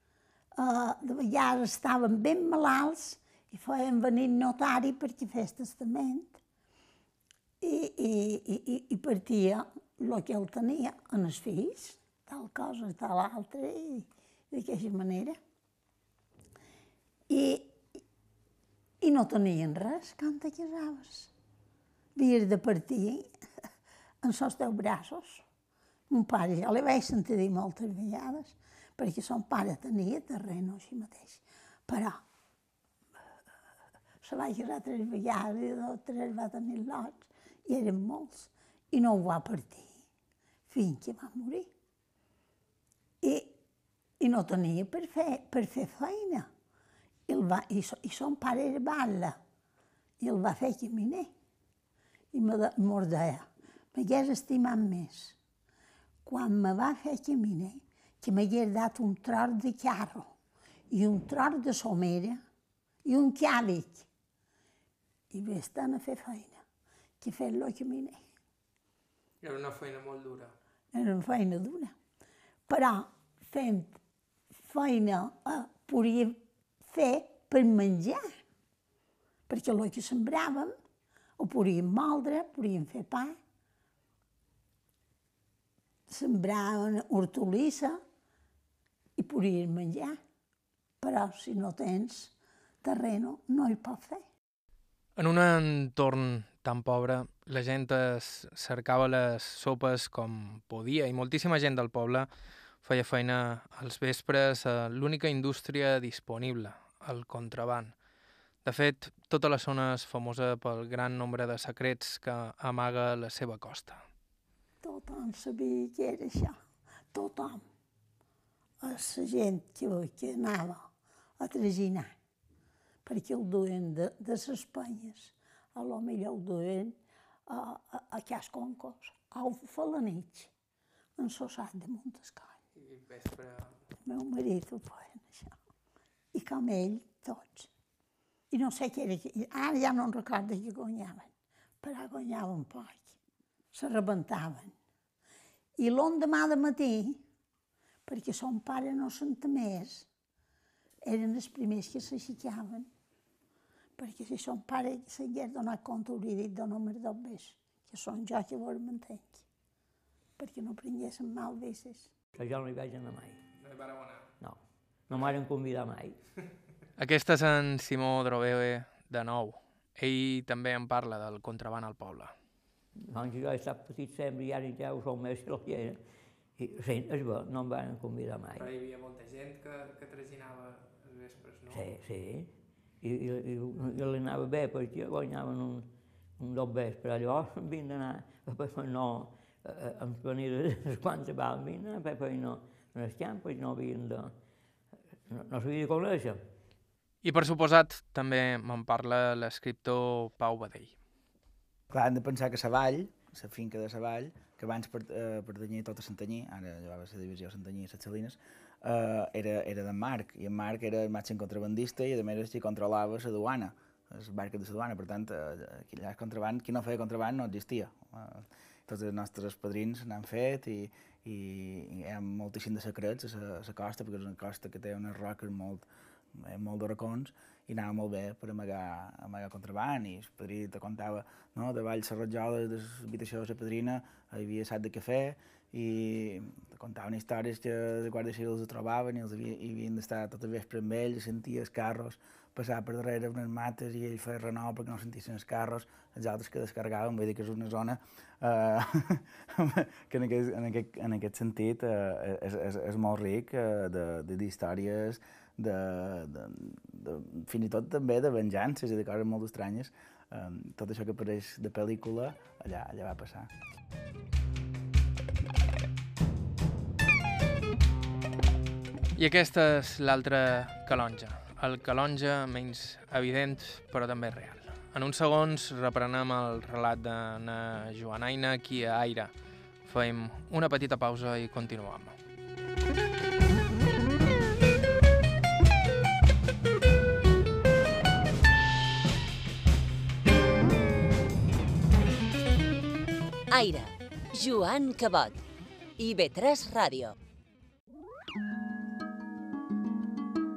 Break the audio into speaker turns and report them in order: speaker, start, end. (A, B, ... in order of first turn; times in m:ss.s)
0:00.6-0:06.4 A
0:07.6-0:15.4 A
0:17.3-0:17.8 A
0:19.0-0:21.3 A
0:22.2-0:23.3 A
0:24.2-0:25.4 A
0:26.1-0:32.2 A
0:34.2-0:40.0 A
0:40.7-0:41.7 A
0:43.2-0:43.6 A
0:44.2-0:46.5 A
0:47.3-0:49.4 A
0:50.2-0:51.3 A
0:52.3-0:55.4 A
0:56.2-1:00.3 A
1:00.9-1:02.4 A
1:03.0-1:04.1 A
1:05.3-1:06.6 A
1:07.2-1:08.2 A
1:09.4-1:10.5 B
1:10.9-1:11.9 A
1:12.7-1:14.0 A
1:14.6-1:18.2 A
1:19.5-1:20.8 A
1:21.4-1:23.4 A
1:26.1-1:28.0 A
1:29.2-1:30.2 A
1:31.0-1:34.2 A
1:35.2-1:42.3 B
1:42.8-1:48.0 B
1:48.6-1:54.0 B
1:54.8-1:56.6 A
1:57.1-1:57.6 A
1:58.8-2:02.1 A
2:03.0-2:10.5 A
2:11.2-2:12.6 A
2:12.8-2:13.7 B
2:14.0-2:15.6 A
2:16.3-2:17.7 A
2:18.5-2:23.2 A
2:23.7-2:24.7 A
2:25.8-2:27.2 A
2:28.1-2:30.1 A
2:31.0-2:32.9 A
2:34.0-2:39.4 A
2:40.4-2:42.1 A
2:42.4-2:43.4 C
2:43.6-2:44.3 B
2:44.4-2:46.2 C
2:47.0-2:52.3 B
2:53.0-2:56.0 C
2:56.6-2:58.7 C
2:58.6-3:01.8 B
3:01.7-3:14.3 C
3:15.3-3:16.4 C
3:17.2-3:21.0 B
3:21.9-4:23.5 D
4:29.2-4:39.3 B
4:39.8-4:42.2 B
4:53.5-4:55.4 E
4:56.0-4:57.2 E